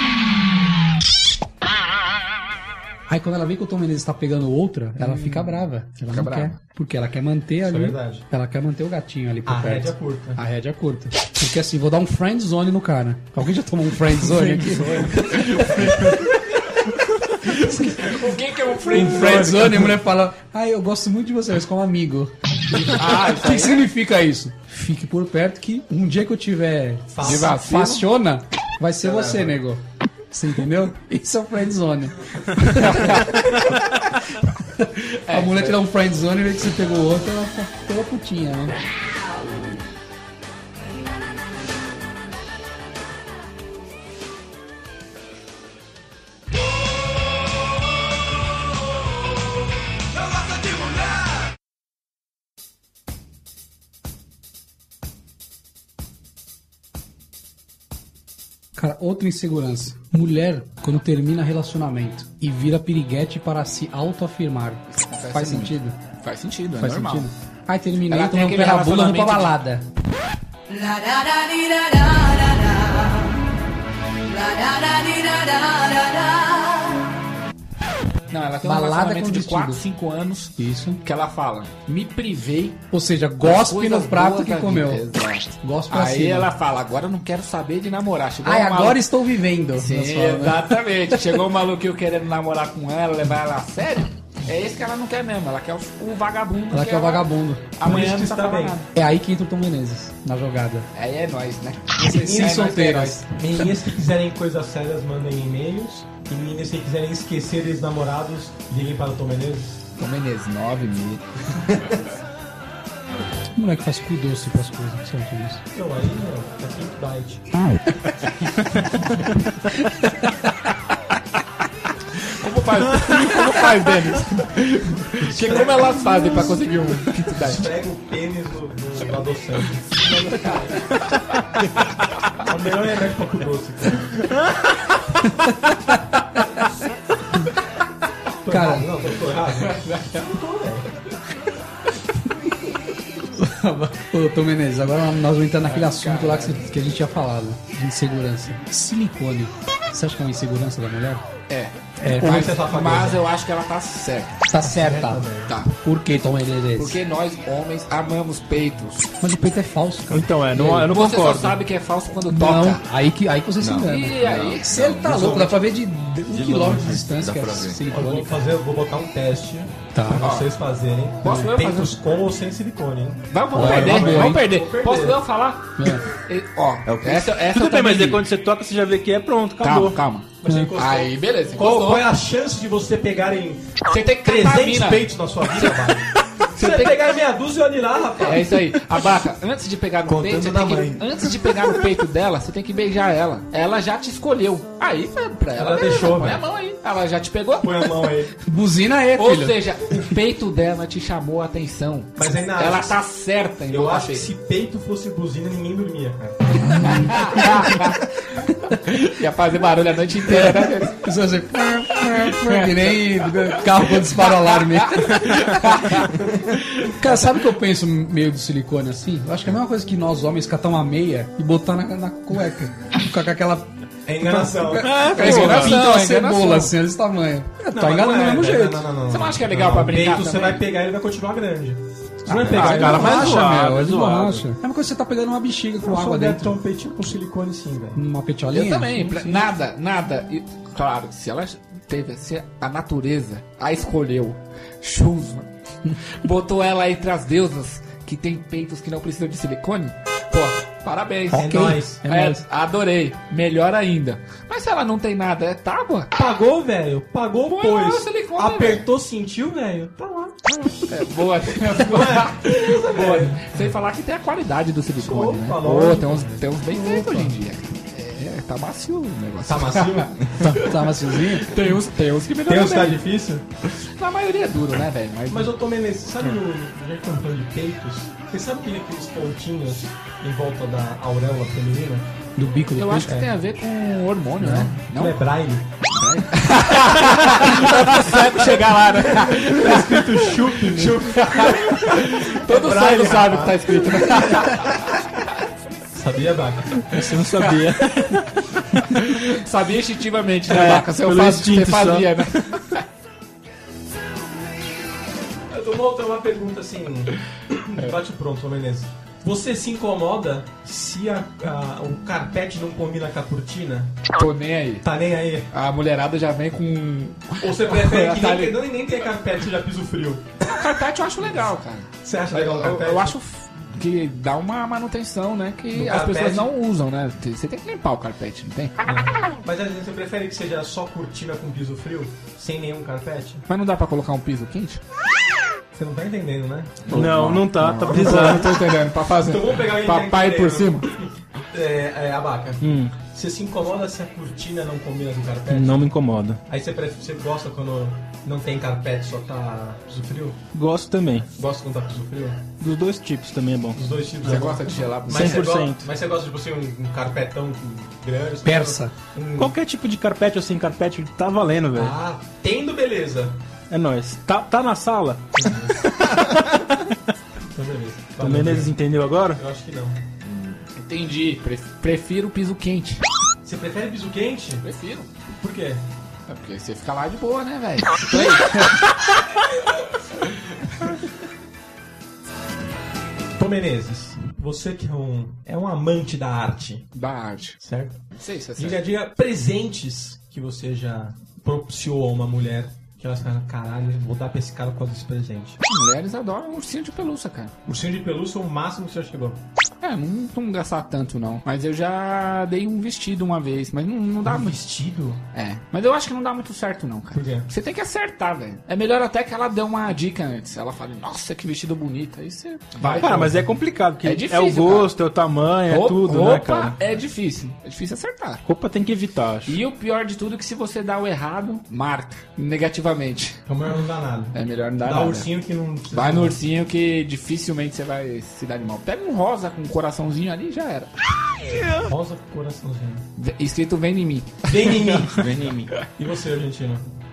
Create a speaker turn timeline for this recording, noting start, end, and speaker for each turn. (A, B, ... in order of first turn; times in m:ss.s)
0:03.1-0:16.3 A
0:05.0-0:06.6 B
0:07.6-0:08.3 C
0:09.4-0:10.4 C
0:14.2-0:16.2 B
0:17.4-0:18.1 A
0:17.5-0:19.9 B
0:18.9-0:34.0 A
0:19.2-0:19.7 C
0:22.8-0:23.8 B
0:27.1-0:27.6 C
0:27.2-0:28.1 B
0:29.2-0:29.5 D
0:32.6-0:34.0 B
0:34.7-0:38.8 A
0:35.3-0:35.8 B
0:58.8-1:06.0 A
1:04.9-1:07.3 B
1:06.8-1:09.9 A
1:08.1-1:09.6 B
1:10.7-1:13.2 B
1:14.3-1:16.9 B
1:18.3-1:22.8 B
1:18.6-1:19.8 A
1:20.6-1:21.0 A
1:22.9-1:25.0 A
1:23.4-1:29.1 B
1:25.6-1:26.5 A
1:28.4-1:30.7 A
1:29.8-1:38.9 B
1:36.7-1:37.7 A
1:37.8-1:38.8 C
1:39.0-1:40.9 A
1:41.0-1:43.3 B
1:42.0-1:43.3 A
1:42.1-1:42.7 C
1:43.3-1:49.8 C
1:50.0-1:52.0 B
1:53.6-1:55.6 A
1:55.7-1:57.4 C
1:59.9-2:00.3 A
2:02.2-2:07.7 B
2:05.2-2:06.4 C
2:07.3-2:10.9 C
2:12.4-2:14.3 C
2:15.2-2:16.6 A
2:18.4-2:20.9 C
2:18.5-2:18.9 A
2:19.7-2:20.2 B
2:23.3-2:31.3 A
2:25.7-2:26.7 B
2:31.5-2:34.5 B
2:32.0-2:32.4 A
2:32.1-2:33.2 C
2:34.5-2:35.2 A
2:34.6-2:35.5 C
2:35.5-2:35.7 B
2:35.8-2:37.0 A
2:36.8-2:39.1 B
2:39.2-2:40.9 A
2:40.1-2:41.6 E
2:40.6-2:42.8 B
2:42.3-2:48.4 A
2:43.6-2:45.6 D
2:43.9-2:44.8 B
2:46.3-2:47.8 D
2:47.9-2:55.2 C
2:50.0-2:50.3 A
2:50.1-2:50.5 B
2:51.2-2:52.0 B
2:53.3-2:58.2 B
2:53.5-2:54.4 A
2:55.8-2:56.1 A
2:56.9-2:57.4 D
2:57.5-3:00.0 E
2:59.6-3:02.1 B
3:00.4-3:08.8 C
3:00.5-3:00.7 A
3:03.9-3:06.0 B
3:06.6-3:07.0 B
3:08.2-3:17.9 B
3:10.1-3:11.0 D
3:10.2-3:11.0 C
3:15.6-3:16.4 C
3:17.6-3:18.3 C
3:18.5-3:19.6 A
3:19.2-3:24.3 B
3:22.2-3:23.0 C
3:23.7-3:26.6 C
3:26.8-3:28.0 B
3:26.8-3:27.1 A
3:28.7-3:31.0 B
3:30.3-3:36.1 A
3:32.1-3:37.2 B
3:36.8-3:43.7 A
3:44.0-3:45.1 C
3:44.2-3:48.8 A
3:44.8-3:45.8 E
3:45.0-3:46.7 B
3:47.7-3:53.3 C
3:49.1-3:50.7 B
3:52.3-3:56.6 A
3:52.4-3:54.5 E
3:52.4-3:53.5 B
3:55.8-3:58.0 C
3:58.0-3:59.0 A
3:58.5-4:05.5 B
3:58.9-3:59.5 C
4:06.0-4:16.1 B
4:11.3-4:12.4 A
4:11.3-4:12.0 C
4:16.2-4:20.5 C
4:17.5-4:18.8 B
4:20.7-4:33.0 B
4:21.7-4:23.6 C
4:25.0-4:27.4 C
4:29.4-4:30.2 C
4:30.4-4:31.6 A
4:32.5-4:33.5 C
4:33.6-4:35.6 B
4:35.3-4:42.1 C
4:42.4-4:43.3 A
4:42.8-4:45.2 B
4:44.4-4:45.7 C
4:45.9-4:55.1 B
4:48.1-4:48.5 C
4:49.1-4:54.5 C
4:55.9-4:56.8 C
4:56.8-4:58.6 E
4:57.4-4:57.8 B
4:59.0-5:02.8 B
5:00.5-5:02.4 E
5:05.5-5:14.1 C
5:14.2-5:14.9 B
5:14.8-5:15.5 C
5:15.5-5:18.6 B
5:17.4-5:20.4 C
5:20.4-5:28.9 B
5:22.0-5:23.2 C
5:25.7-5:26.5 C
5:28.8-5:33.4 C
5:33.5-5:34.8 B
5:35.7-5:36.9 C
5:36.9-5:40.9 B
5:36.9-5:38.5 E
5:37.9-5:45.9 C
5:42.6-5:42.9 E
5:45.5-5:46.4 E
5:46.5-5:50.4 C
5:50.5-5:51.3 E
5:51.3-5:52.5 C
5:52.6-5:53.8 E
5:53.7-5:59.5 C
5:54.2-5:55.5 B
5:55.1-5:55.9 E
5:58.4-5:58.9 A
5:59.4-6:02.0 E
6:01.7-6:03.4 C
6:03.7-6:05.3 E
6:05.4-6:05.8 C
6:05.9-6:06.9 E
6:07.5-6:08.8 C
6:08.2-6:09.4 E
6:09.3-6:10.0 C
6:10.2-6:10.6 D
6:10.8-6:13.0 B
6:13.4-6:14.7 C
6:14.6-6:15.1 B
6:15.3-6:15.8 C
6:16.3-6:19.2 B
6:23.4-6:26.9 C
6:27.0-6:27.6 B
6:27.6-6:28.0 C
6:28.2-6:28.8 B
6:28.6-6:35.6 C
6:35.6-6:37.6 B
6:37.7-6:39.4 C
6:39.8-6:44.6 B
6:44.2-6:45.2 C
6:45.3-6:53.3 B
6:47.1-6:47.5 C
6:52.8-6:53.4 C
6:52.9-6:56.8 E
6:54.0-6:54.9 B
6:55.7-6:58.4 B
6:58.4-6:59.6 E
6:59.5-7:03.4 B
7:03.5-7:06.4 C
7:04.3-7:05.3 B
7:05.9-7:10.9 B
7:11.8-7:13.1 C
7:13.2-7:14.9 B
7:14.4-7:15.4 C
7:15.1-7:15.8 D
7:16.0-7:16.9 C